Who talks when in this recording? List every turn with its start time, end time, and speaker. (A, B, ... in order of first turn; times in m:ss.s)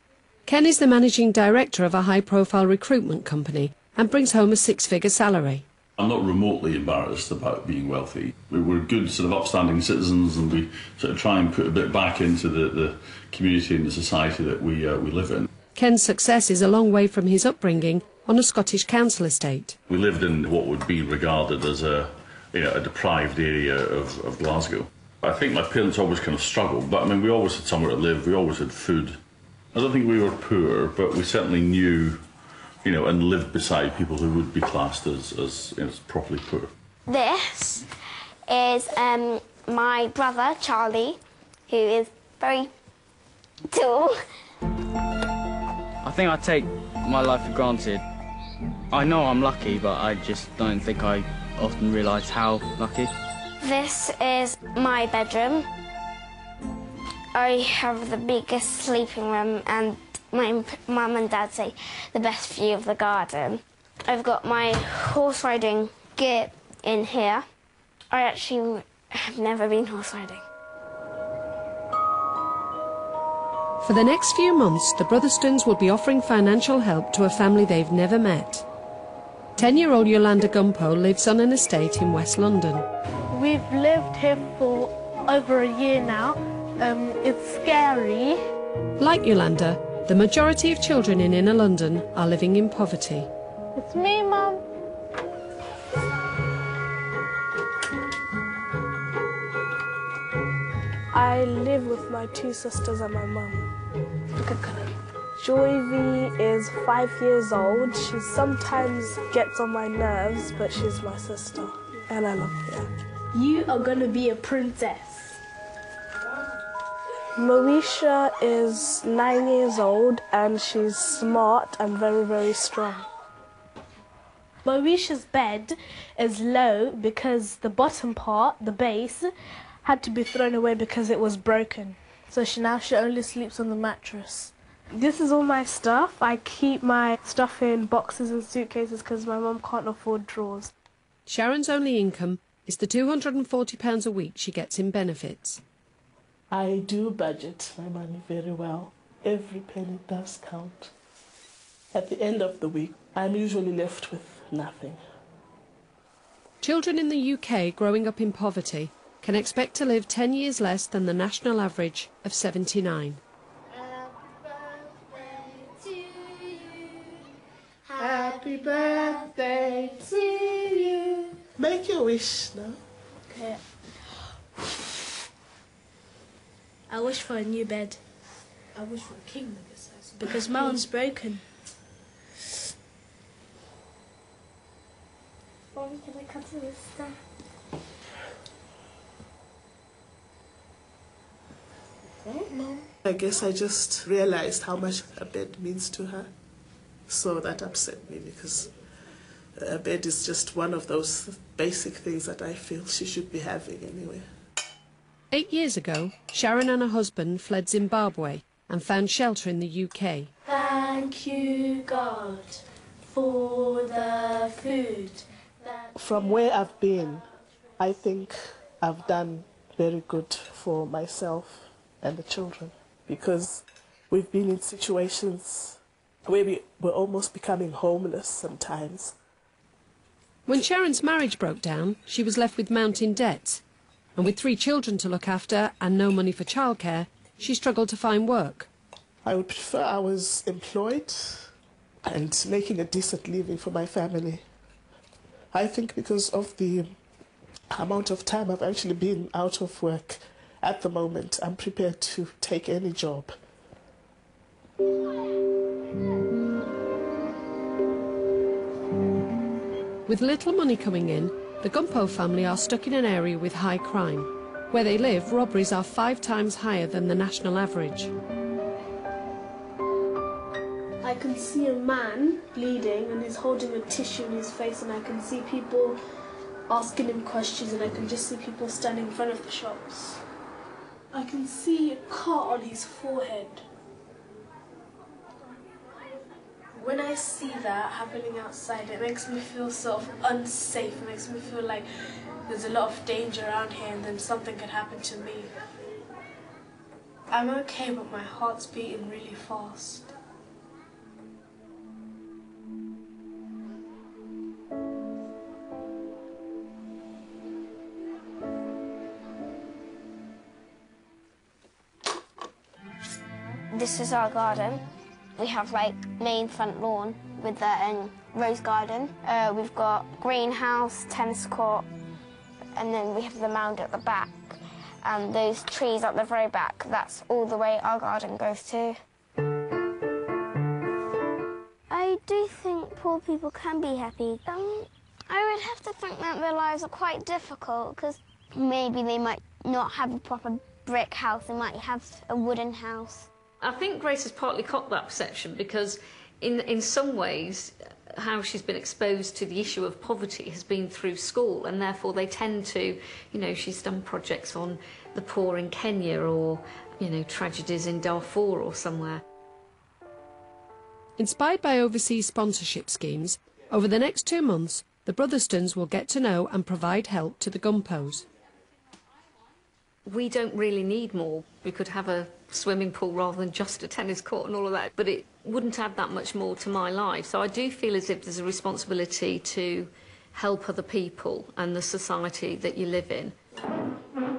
0:00.5-0:05.6 A
0:06.0-0:15.5 B
0:15.7-0:19.8 A
0:19.9-0:29.2 B
0:29.7-0:32.2 B
0:32.8-0:36.7 B
0:37.1-0:37.8 C
0:38.5-0:42.7 C
0:43.7-0:44.2 C
0:46.0-0:48.0 D
0:48.9-0:53.1 D
0:53.6-0:55.6 C
0:57.3-1:07.4 C
1:08.1-1:10.4 C
1:13.8-1:18.6 A
1:19.6-1:22.9 A
1:23.3-1:28.4 E
1:29.0-1:33.3 A
1:33.8-1:34.6 E
1:41.1-1:43.7 E
1:44.4-1:55.4 E
1:57.4-2:03.1 E
2:04.6-2:09.3 E
2:09.8-2:20.7 E
2:21.3-2:25.6 A
2:26.5-2:30.9 F
2:31.9-2:35.0 F
2:36.6-2:43.2 A
2:48.0-2:52.8 F
2:53.3-2:53.6 E
2:56.9-2:58.0 E
2:58.8-3:01.4 E
3:05.8-3:07.1 E
3:12.3-3:12.8 E
3:13.0-3:16.3 F
3:17.1-3:18.7 F
3:19.6-3:24.2 F
3:25.3-3:30.3 A
3:30.4-3:35.9 E
3:36.0-3:37.2 F
3:37.8-3:49.2 F
3:50.5-3:53.6 A
3:54.2-3:58.7 A
3:59.2-4:01.5 F
4:02.0-4:04.4 F
4:05.5-4:07.0 F
4:07.7-4:13.3 F
4:20.1-4:28.1 A
4:31.0-4:36.0 E
4:36.7-4:40.2 E
4:41.1-4:43.6 E
4:46.8-4:51.9 E
4:52.5-4:55.5 E
4:57.3-5:00.1 E
5:13.7-5:14.8 C
5:15.4-5:21.8 C
5:22.7-5:29.0 C
5:31.9-5:43.3 C
5:43.6-5:59.2 G
6:01.2-6:08.2 A
6:10.0-6:23.3 G